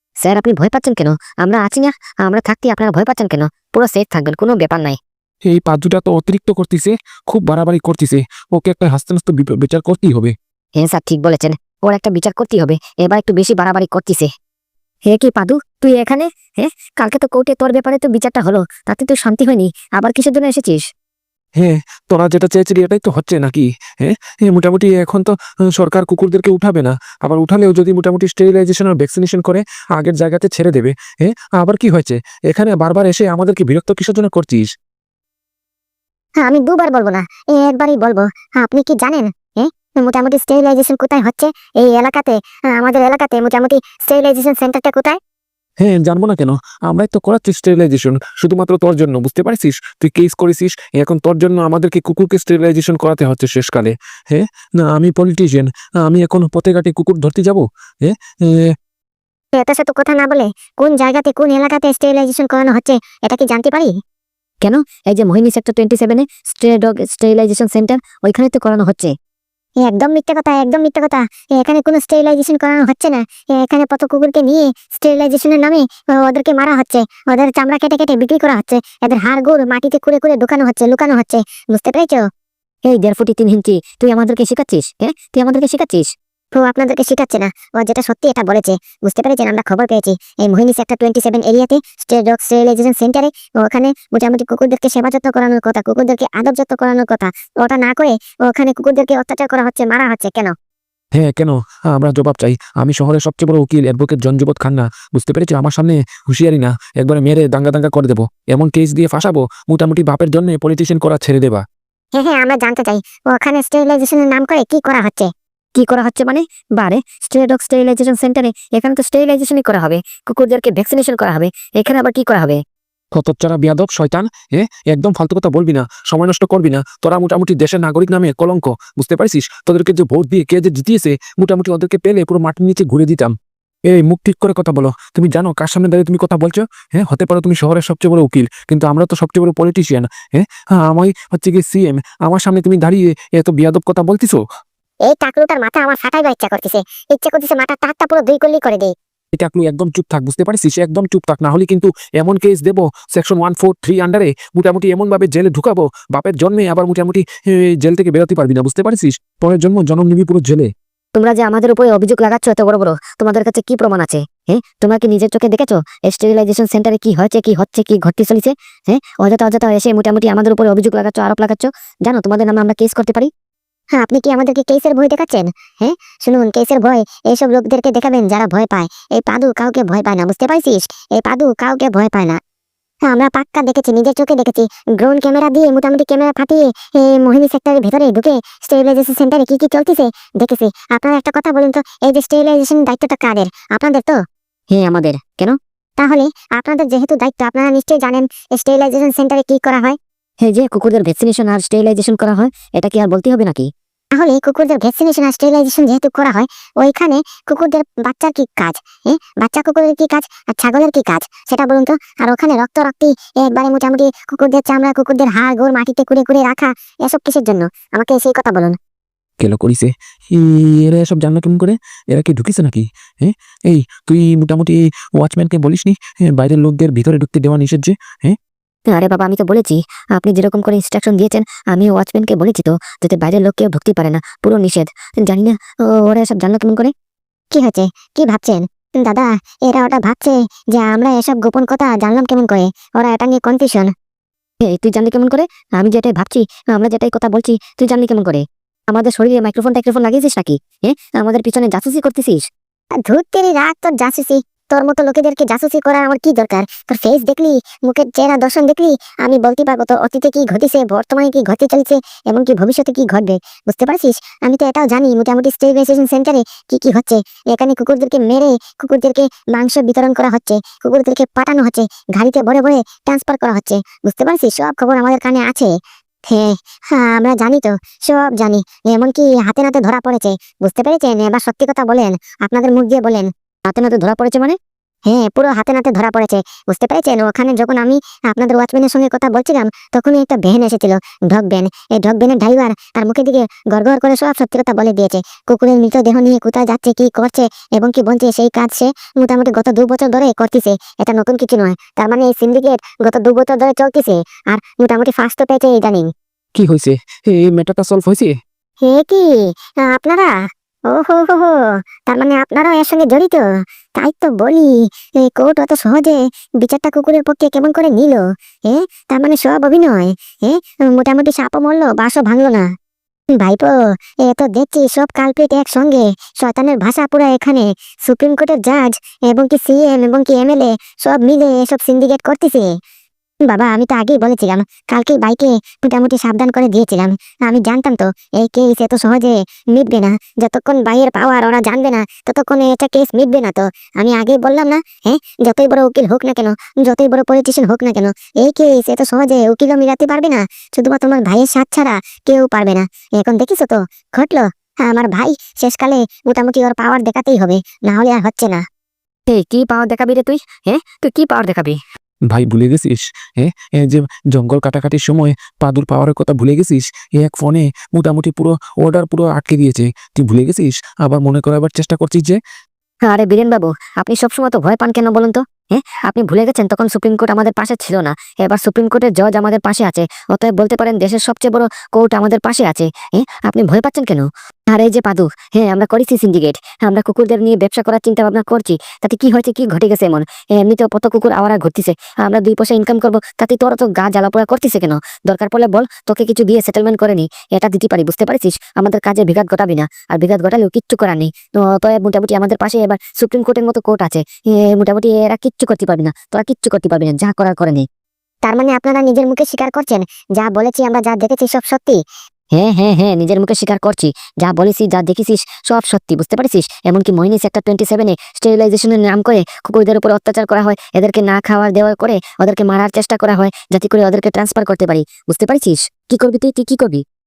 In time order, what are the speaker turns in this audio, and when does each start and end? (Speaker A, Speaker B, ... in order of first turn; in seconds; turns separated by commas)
Speaker A: 0.2-5.0, Speaker B: 5.5-10.3, Speaker A: 10.8-14.3, Speaker A: 15.1-20.8, Speaker B: 21.6-34.7, Speaker C: 36.4-45.2, Speaker B: 45.8-58.7, Speaker C: 59.5-63.9, Speaker A: 64.6-69.1, Speaker C: 69.8-82.2, Speaker A: 82.8-86.1, Speaker C: 86.5-100.5, Speaker B: 101.1-111.6, Speaker C: 112.1-115.3, Speaker A: 115.8-122.6, Speaker B: 123.1-133.3, Speaker B: 133.9-144.4, Speaker C: 145.1-148.9, Speaker B: 149.3-160.7, Speaker A: 161.2-173.3, Speaker C: 173.9-182.4, Speaker C: 183.1-194.2, Speaker A: 194.7-195.6, Speaker C: 196.0-200.0, Speaker A: 200.4-203.7, Speaker C: 204.1-218.8, Speaker B: 219.4-228.4, Speaker A: 228.9-236.9, Speaker C: 237.5-243.9, Speaker A: 244.7-252.4, Speaker C: 253.0-275.7, Speaker C: 276.3-283.3, Speaker A: 283.7-284.6, Speaker C: 285.1-306.1, Speaker B: 306.6-308.4, Speaker C: 308.8-309.2, Speaker C: 309.8-310.3, Speaker C: 310.9-313.4, Speaker C: 313.9-322.7, Speaker C: 323.4-332.7, Speaker C: 333.5-358.6, Speaker A: 359.3-361.8, Speaker B: 362.3-372.4, Speaker A: 373.1-407.8, Speaker C: 408.4-412.0, Speaker A: 412.5-427.0